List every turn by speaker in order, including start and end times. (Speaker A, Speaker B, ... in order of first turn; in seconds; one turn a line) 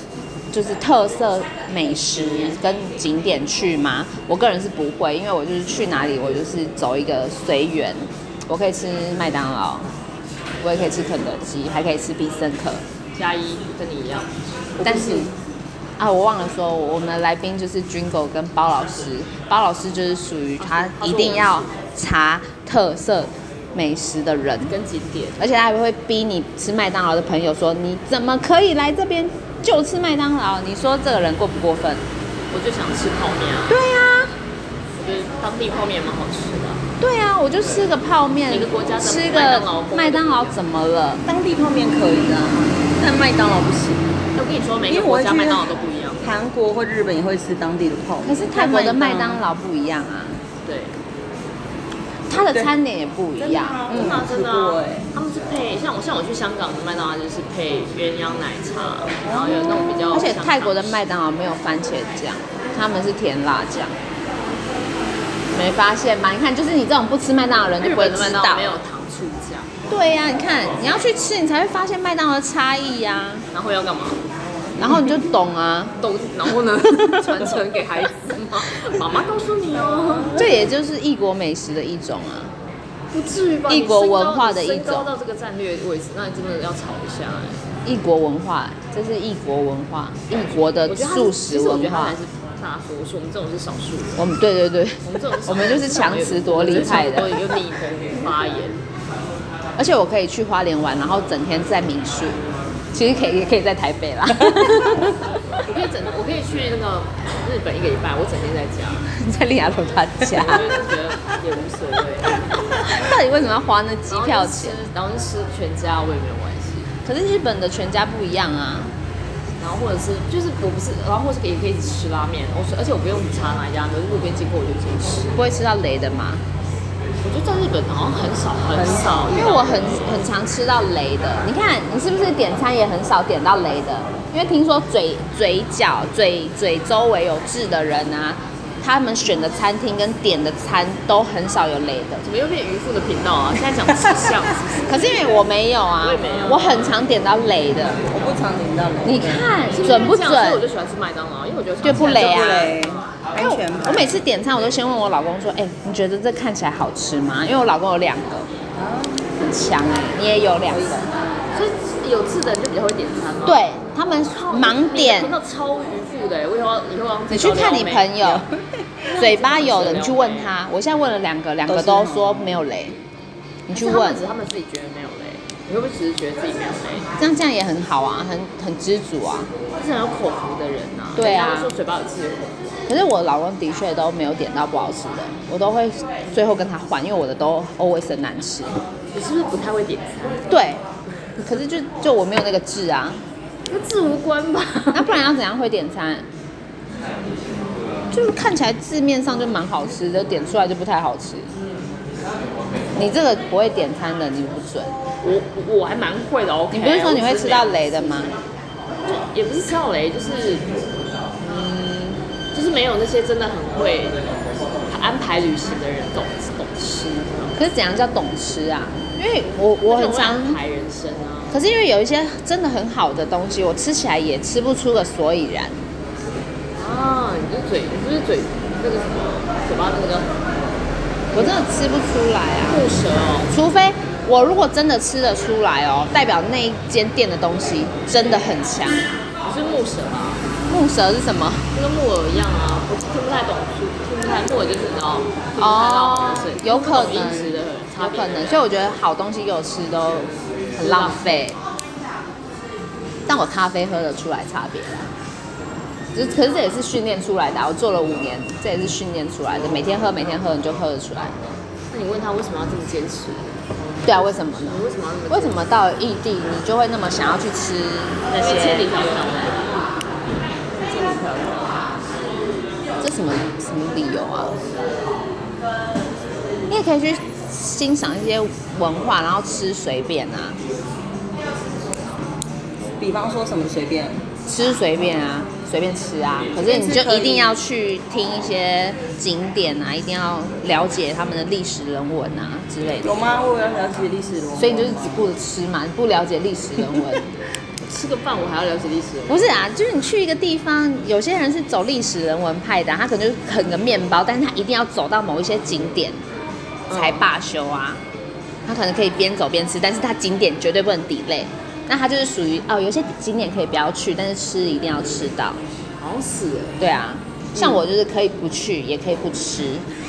Speaker A: 0.5-9.9
Speaker A: 10.6-12.8
Speaker B: 13.1-14.3
Speaker C: 14.8-15.3
Speaker A: 14.8-15.3
Speaker A: 16.0-24.8
Speaker B: 20.6-21.7
Speaker B: 24.6-25.5
Speaker A: 25.4-32.0
Speaker B: 32.5-33.8
Speaker A: 33.7-34.3
Speaker B: 35.0-36.8
Speaker A: 37.0-41.2
Speaker B: 38.5-40.6
Speaker C: 41.2-44.0
Speaker B: 44.3-46.3
Speaker C: 44.9-49.4
Speaker A: 48.2-50.4
Speaker B: 50.6-51.0
Speaker A: 52.3-54.3
Speaker C: 52.3-52.8
Speaker C: 53.4-55.1
Speaker B: 53.9-61.0
Speaker C: 59.3-60.2
Speaker A: 60.1-64.0
Speaker A: 65.5-68.8
Speaker B: 67.8-69.7
Speaker A: 69.9-73.5
Speaker B: 73.5-74.2
Speaker A: 74.8-75.9
Speaker B: 76.0-80.7
Speaker A: 80.3-82.5
Speaker B: 83.1-87.6
Speaker A: 83.7-85.1
Speaker A: 87.8-92.2
Speaker B: 90.8-94.3
Speaker A: 94.2-97.4
Speaker B: 95.0-98.8
Speaker A: 99.8-102.4
Speaker A: 102.9-105.6
Speaker B: 105.6-109.1
Speaker A: 109.1-110.7
Speaker B: 110.2-112.6
Speaker A: 112.7-114.8
Speaker B: 114.1-116.9
Speaker A: 117.0-118.9
Speaker B: 119.6-125.4
Speaker A: 125.3-126.4
Speaker B: 127.2-130.1
Speaker C: 128.7-129.2
Speaker A: 129.3-142.2
Speaker B: 142.2-145.4
Speaker A: 144.8-148.0
Speaker B: 146.0-147.0
Speaker C: 148.1-149.5
Speaker A: 149.0-150.6
Speaker B: 149.7-153.1
Speaker A: 151.8-152.8
Speaker C: 151.9-154.2
Speaker A: 153.4-158.5
Speaker C: 158.8-159.3
Speaker A: 159.4-161.1
Speaker C: 160.7-161.1
Speaker B: 161.5-163.6
Speaker A: 163.4-165.3
Speaker B: 164.4-168.2
Speaker A: 167.3-168.5
Speaker C: 168.2-168.6
Speaker B: 169.1-170.6
Speaker A: 169.2-173.0
Speaker C: 171.7-172.4
Speaker A: 173.7-174.2
Speaker B: 173.7-177.1
Speaker A: 177.2-179.5
Speaker B: 179.8-182.8
Speaker A: 181.2-181.7
Speaker A: 182.9-188.8
Speaker B: 189.1-190.5
Speaker A: 190.5-190.8
Speaker A: 191.4-193.2
Speaker B: 193.7-195.2
Speaker A: 194.9-196.2
Speaker A: 198.1-201.5
Speaker A: 203.0-204.9
Speaker B: 205.2-208.4
Speaker A: 206.7-208.3
Speaker B: 209.1-210.7
Speaker B: 211.4-217.6
Speaker A: 217.6-220.6
Speaker B: 219.8-221.6
Speaker A: 221.5-225.8
Speaker B: 226.8-230.4
Speaker B: 231.3-231.7
Speaker A: 231.3-232.9
Speaker B: 232.6-233.5
Speaker A: 233.5-239.1
Speaker B: 239.4-240.4
Speaker A: 240.7-241.7
Speaker B: 241.7-248.6
Speaker A: 245.6-251.6
Speaker B: 250.8-251.5
Speaker A: 253.3-255.1
Speaker A: 256.1-261.4
Speaker B: 261.9-265.6
Speaker A: 264.1-268.9
Speaker B: 268.3-269.8
Speaker B: 270.7-271.9
Speaker A: 273.0-274.5
Speaker A: 276.7-280.6
Speaker C: 283.0-284.2
Speaker A: 284.4-293.3
Speaker C: 286.5-287.6
Speaker C: 293.0-295.3
Speaker A: 294.6-297.3
Speaker B: 297.8-299.7
Speaker A: 299.3-306.2
Speaker B: 306.9-307.3
Speaker A: 306.9-308.0
Speaker A: 308.7-315.6
Speaker B: 316.0-316.8
Speaker A: 316.8-319.9
Speaker B: 317.5-317.9